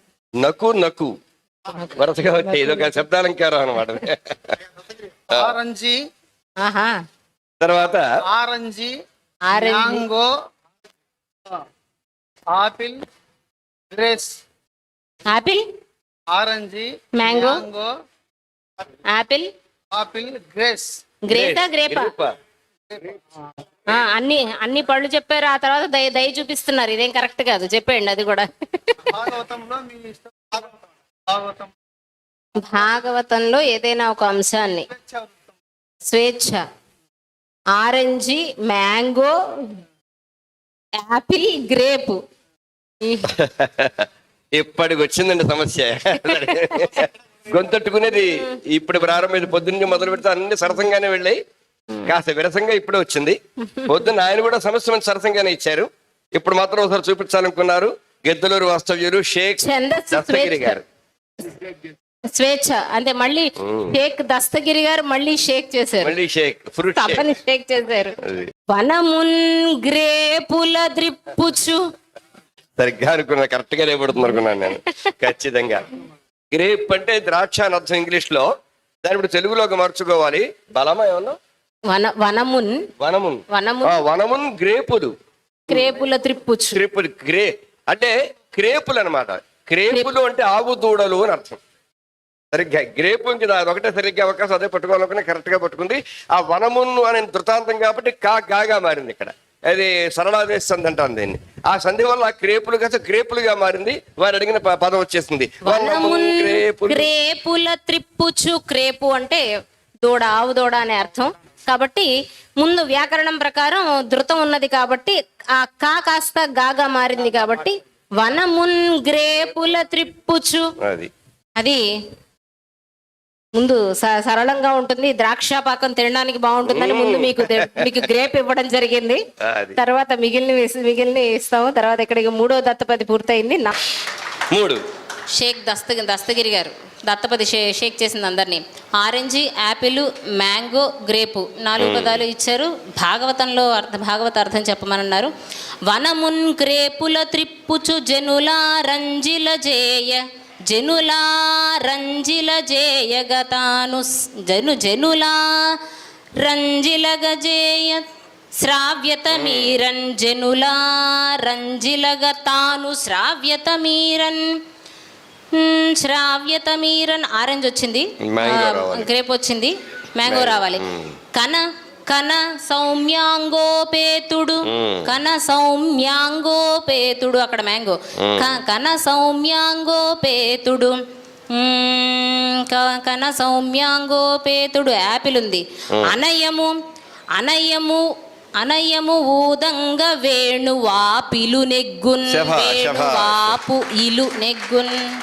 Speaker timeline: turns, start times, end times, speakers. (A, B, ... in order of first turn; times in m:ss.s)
0:00.4-0:01.1 A
0:01.7-0:02.9 B
0:01.9-0:04.6 A
0:05.3-0:06.0 C
0:05.3-0:05.6 A
0:06.6-0:06.9 B
0:07.6-0:08.1 A
0:08.2-0:09.0 C
0:09.5-0:10.1 B
0:09.5-0:10.3 C
0:12.5-0:13.0 C
0:13.9-0:14.4 C
0:15.3-0:15.6 B
0:16.3-0:17.9 C
0:17.2-0:17.6 B
0:19.1-0:19.5 B
0:19.9-0:21.1 C
0:21.3-0:22.1 B
0:21.3-0:22.3 A
0:23.9-0:29.2 B
0:29.1-0:30.7 C
0:31.3-0:31.7 C
0:32.6-0:34.9 B
0:34.9-0:35.4 C
0:36.0-0:36.6 B
0:37.8-0:39.4 B
0:41.0-0:42.2 B
0:43.0-0:43.3 B
0:43.3-0:51.4 A
0:46.2-0:47.0 B
0:52.1-1:00.8 A
0:59.6-1:00.8 B
1:02.4-1:06.1 B
1:03.6-1:04.0 A
1:06.0-1:07.3 A
1:07.0-1:08.2 B
1:08.2-1:08.5 A
1:08.7-1:11.8 B
1:12.8-1:15.9 A
1:16.5-1:18.5 A
1:19.0-1:21.4 A
1:21.9-1:22.8 B
1:23.0-1:25.1 A
1:23.5-1:24.0 B
1:25.7-1:26.8 B
1:26.7-1:31.6 A
1:32.5-1:47.1 A
1:45.6-1:49.4 B
1:50.0-2:00.7 B
2:00.8-2:01.1 A
2:03.6-2:09.2 B
2:06.6-2:08.1 A
2:09.4-2:09.8 A
2:09.8-2:13.8 B
2:14.5-2:14.8 A
2:15.4-2:25.3 B
2:21.8-2:22.2 A
2:25.9-2:35.8 B
2:36.4-2:38.0 B
2:38.6-2:44.6 B
2:39.3-2:39.8 A
2:45.6-3:01.0 B
2:48.2-2:49.1 A
2:50.3-2:51.2 A
2:54.7-2:55.1 A
2:58.2-2:58.6 A
3:01.5-3:06.7 B
3:07.4-3:08.0 B
3:08.6-3:15.0 B
3:12.3-3:13.6 A